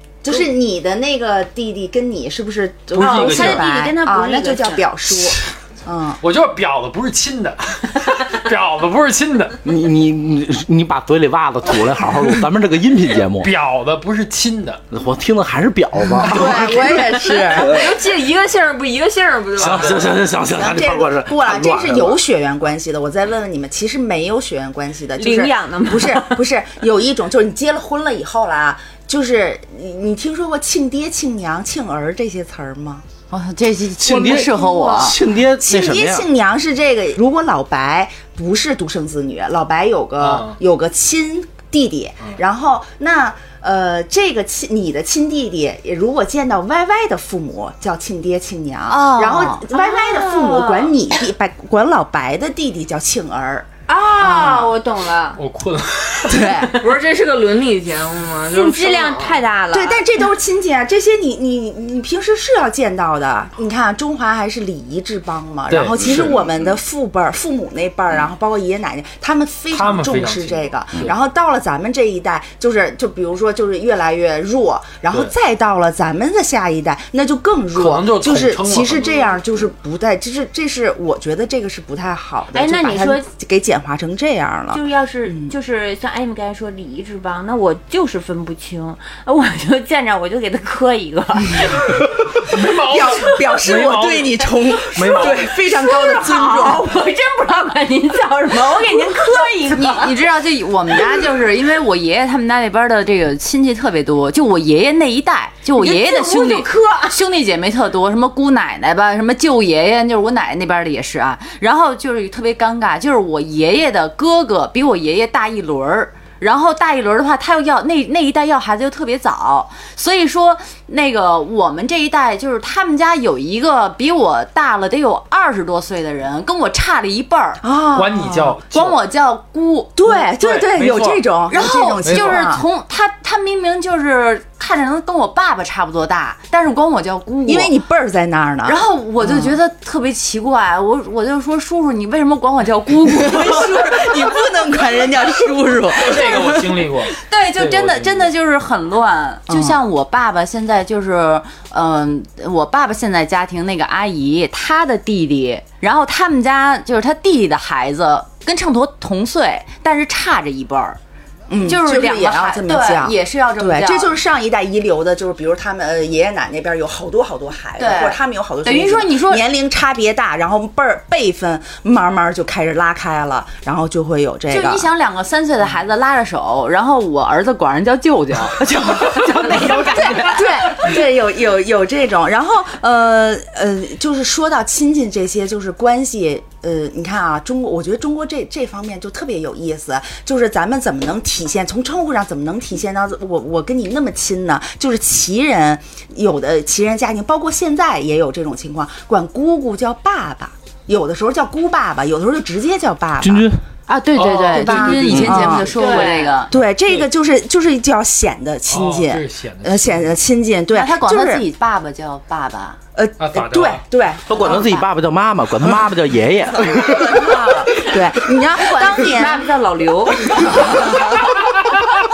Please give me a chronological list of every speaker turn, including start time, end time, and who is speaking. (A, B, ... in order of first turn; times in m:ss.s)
0:00.2-0:06.2 A
0:02.9-0:03.7 B
0:03.0-0:04.8 C
0:06.2-0:09.6 B
0:09.6-0:13.5 D
0:13.4-0:14.8 B
0:14.9-0:17.9 D
0:16.2-0:17.8 A
0:17.4-0:20.1 E
0:19.6-0:22.2 D
0:20.5-0:33.0 A
0:25.2-0:26.4 C
0:33.3-0:35.2 F
0:34.0-0:36.3 D
0:34.3-0:53.7 A
0:40.2-0:40.6 B
0:48.9-0:49.6 F
0:49.7-0:51.0 C
0:53.9-0:55.4 C
0:54.2-0:54.7 A
0:55.4-0:56.7 B
0:56.3-0:56.8 A
0:56.7-0:59.4 E
0:58.5-1:00.0 C
0:59.7-1:25.5 A
1:05.7-1:06.4 B
1:06.0-1:06.3 D
1:09.7-1:11.1 B
1:17.7-1:19.4 B
1:22.5-1:23.3 C
1:24.7-1:31.8 C
1:31.6-1:35.6 B
1:32.4-1:36.9 A
1:35.0-1:40.1 C
1:38.6-1:39.8 A
1:39.7-2:07.6 F
1:45.7-1:47.2 C
2:07.6-2:08.5 A
2:07.9-2:09.0 B
2:08.7-2:10.3 F
2:10.0-2:12.6 A
2:10.4-2:11.2 B
2:11.5-2:17.7 F
2:12.0-2:12.4 B
2:17.5-2:19.6 A
2:18.6-2:23.9 F
2:23.1-2:26.8 A
2:26.0-2:28.3 B
2:27.1-2:41.0 F
2:29.5-2:29.8 A
2:41.5-2:54.8 A
2:41.6-2:44.1 F
2:47.8-2:49.4 F
2:54.5-3:00.9 F
3:00.0-3:23.5 A
3:23.2-3:23.6 D
3:23.9-3:26.5 F
3:24.2-3:25.6 B
3:24.5-3:25.8 A
3:24.9-3:25.6 D
3:25.6-3:26.4 C
3:26.5-3:31.4 A
3:26.6-3:27.0 B
3:28.7-3:30.1 B
3:30.7-3:32.8 F
3:32.9-3:34.7 A
3:33.2-3:33.8 B
3:34.3-3:37.5 D
3:36.7-3:39.5 A
3:38.5-3:40.9 C
3:40.3-3:41.3 A